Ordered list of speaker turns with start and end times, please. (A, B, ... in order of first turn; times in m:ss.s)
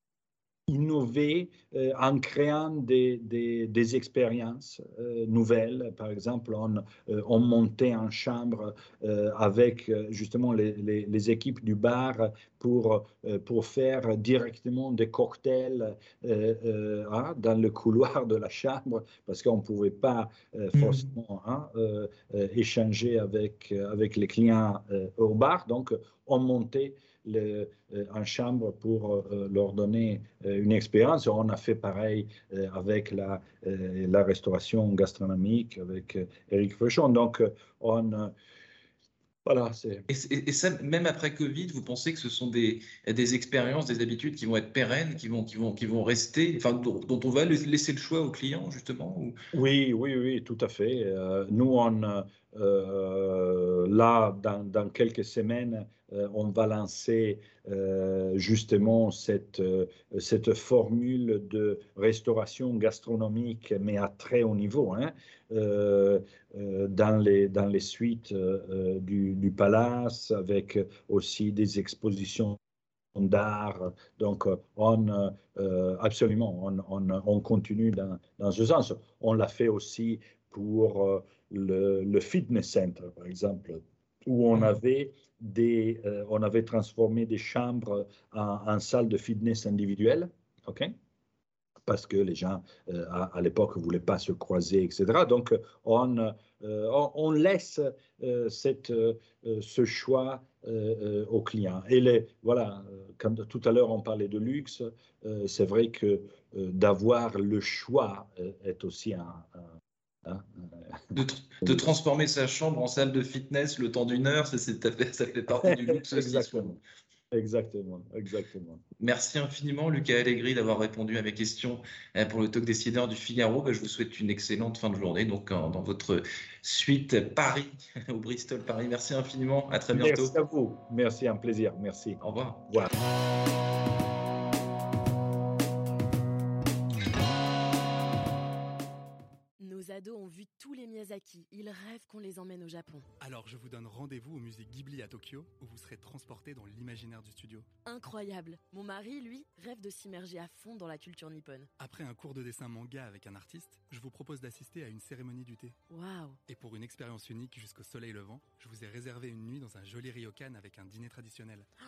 0:00.7-0:38.3 A
0:20.7-0:21.0 B
0:39.4-0:40.1 A
0:40.1-0:49.4 B
0:49.5-1:12.6 A
1:13.1-1:30.9 A
1:31.9-1:49.7 A
1:50.2-1:51.9 A
1:51.1-1:56.8 B
1:55.6-1:56.8 A
1:57.3-1:58.8 A
1:59.0-2:10.3 B
2:09.9-2:12.9 A
2:12.2-2:12.6 B
2:19.6-2:23.1 C
2:23.2-2:27.7 D
2:27.8-2:31.7 C
2:31.8-2:35.8 D
2:35.9-2:36.4 C
2:36.5-2:41.7 D